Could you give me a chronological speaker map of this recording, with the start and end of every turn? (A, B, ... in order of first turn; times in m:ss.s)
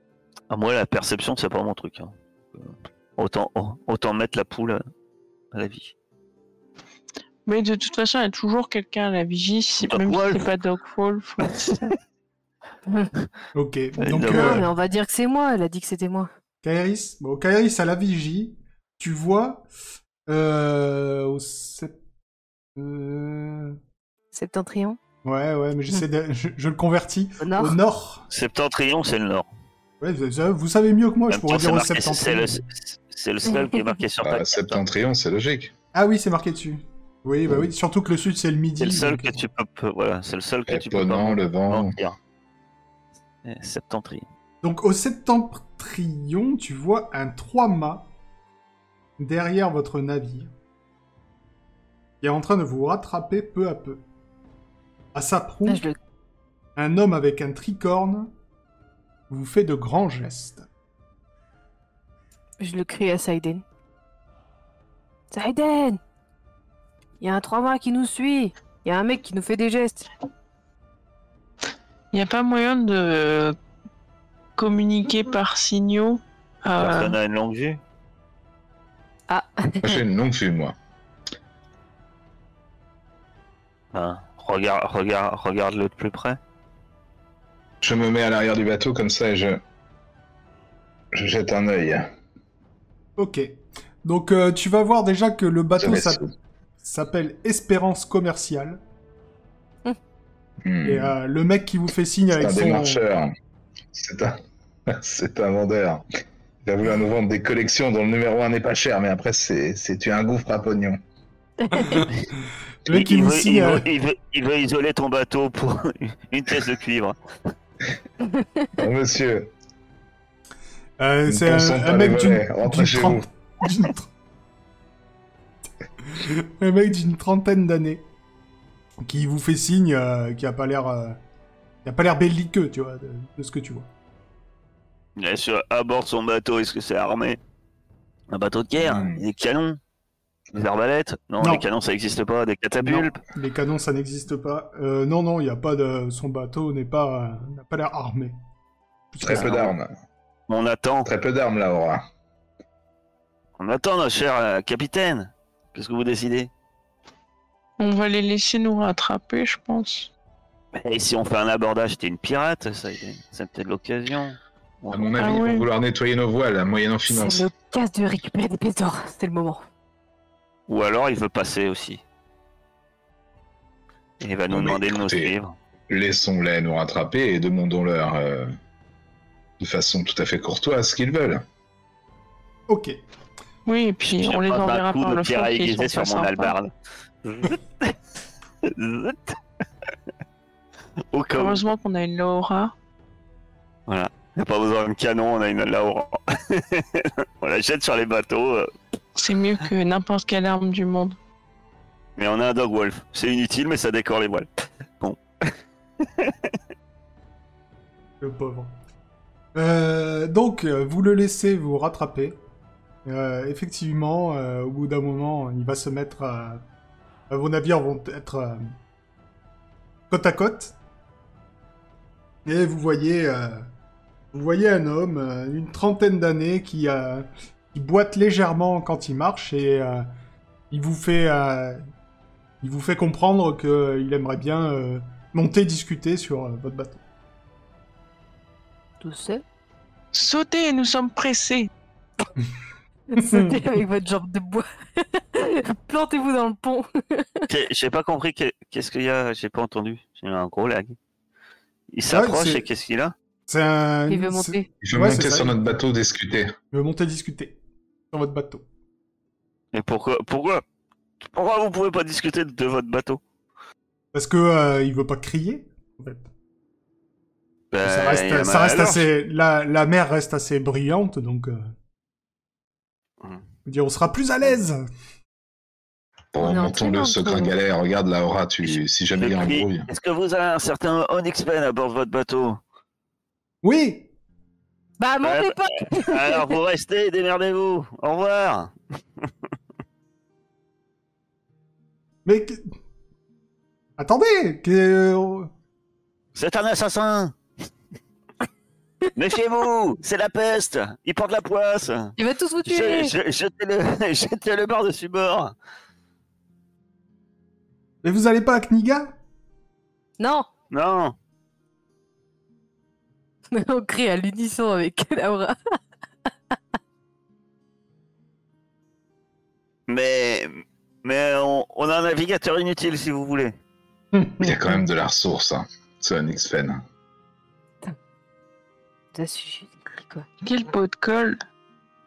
0:00.5-0:04.8 A
0:05.5-0:05.9 A
0:07.5-0:11.9 B
0:09.9-0:10.4 A
0:11.4-0:11.9 A
0:13.5-0:14.7 C
0:14.0-0:14.7 A
0:14.3-0:16.3 D
0:16.6-0:19.6 C
0:20.3-0:22.0 C
0:22.8-0:23.8 C
0:24.3-0:25.0 D
0:25.2-0:28.3 C
0:27.4-0:27.8 D
0:28.3-0:29.5 A
0:30.0-0:32.6 C
0:31.3-0:34.8 A
0:33.5-0:33.8 D
0:34.2-0:35.7 E
0:35.9-0:39.4 C
0:38.8-0:42.2 A
0:40.7-0:41.9 E
0:43.4-0:44.2 A
0:44.6-0:48.1 C
0:49.2-0:50.5 C
0:52.2-0:54.0 C
0:55.1-0:55.8 C
0:55.7-0:56.0 D
0:56.8-0:58.3 C
0:59.3-1:00.7 C
1:02.6-1:03.6 D
1:05.3-1:06.0 D
1:07.2-1:10.1 D
1:12.1-1:13.6 B
1:14.6-1:17.2 B
1:16.8-1:17.8 A
1:19.3-1:20.0 D
1:19.8-1:20.8 E
1:23.9-1:26.4 A
1:27.8-1:29.6 E
1:31.1-1:32.1 E
1:33.2-1:36.2 C
1:35.8-1:36.3 E
1:36.8-1:38.8 C
1:40.6-1:41.2 E
1:40.8-1:43.0 C
1:42.3-1:43.3 E
1:43.9-1:46.0 E
1:46.6-1:51.0 E
1:51.6-1:52.0 D
1:51.7-1:52.1 C
1:52.9-1:53.9 C
1:52.9-1:57.2 A
1:58.8-1:59.5 E
2:01.0-2:04.1 C
2:01.3-2:03.3 E
2:06.0-2:08.0 C
2:09.0-2:11.2 C
2:11.8-2:13.9 C
2:15.2-2:17.4 A
2:18.3-2:19.8 A
2:18.8-2:19.2 E
2:20.5-2:23.2 A
2:22.8-2:28.4 C
2:29.1-2:29.7 C
2:29.2-2:29.9 E
2:29.3-2:29.7 A
2:30.5-2:31.1 A
2:31.0-2:32.0 E
2:33.6-2:36.5 A
2:37.8-2:40.1 B
2:40.7-2:45.5 A
2:44.9-2:47.5 E
2:45.2-2:45.7 B
2:47.1-2:49.6 D
2:50.7-2:52.0 A
2:54.2-2:55.5 A
2:54.5-2:55.3 E
2:55.9-2:58.5 E
2:59.6-3:01.4 E
3:02.7-3:03.0 C
3:03.7-3:06.5 B
3:04.1-3:06.7 A
3:07.2-3:08.0 A
3:08.6-3:09.4 A
3:11.1-3:11.6 A
3:11.3-3:12.7 B
3:13.9-3:18.7 A
3:19.2-3:21.2 B
3:22.2-3:24.5 A
3:25.0-3:26.4 A
3:28.2-3:28.7 C
3:29.6-3:32.4 C
3:33.1-3:36.6 C
3:37.3-3:38.6 C
3:40.1-3:40.8 C
3:42.5-3:43.7 C
3:44.3-3:50.1 C
3:50.7-3:51.8 C
3:52.6-3:57.0 C
3:59.0-3:59.4 D
4:00.1-4:01.7 B
4:03.1-4:07.5 D
4:03.2-4:03.6 C
4:07.5-4:11.0 A
4:11.9-4:13.1 A
4:12.1-4:12.6 C
4:13.5-4:15.6 C
4:14.1-4:14.7 D
4:14.8-4:16.6 E
4:16.7-4:17.6 C
4:18.1-4:18.6 C
4:19.7-4:20.6 A
4:21.2-4:23.2 A
4:24.1-4:26.3 C
4:27.7-4:29.1 A
4:27.8-4:31.7 C
4:33.7-4:34.8 C
4:36.3-4:39.9 E
4:36.4-4:37.6 D
4:38.7-4:42.6 A
4:43.6-4:44.1 C
4:45.0-4:46.6 D
4:45.2-4:49.3 A
4:52.2-4:52.6 C
4:54.0-4:55.5 C
4:56.4-4:57.4 A
4:59.2-5:05.6 A
5:02.2-5:03.1 D
5:08.0-5:09.1 C
5:10.2-5:10.5 D
5:10.7-5:11.2 A
5:13.5-5:15.6 D
5:19.9-5:23.6 A
5:24.1-5:24.8 C
5:24.4-5:26.8 E
5:29.1-5:30.3 D
5:30.4-5:31.4 B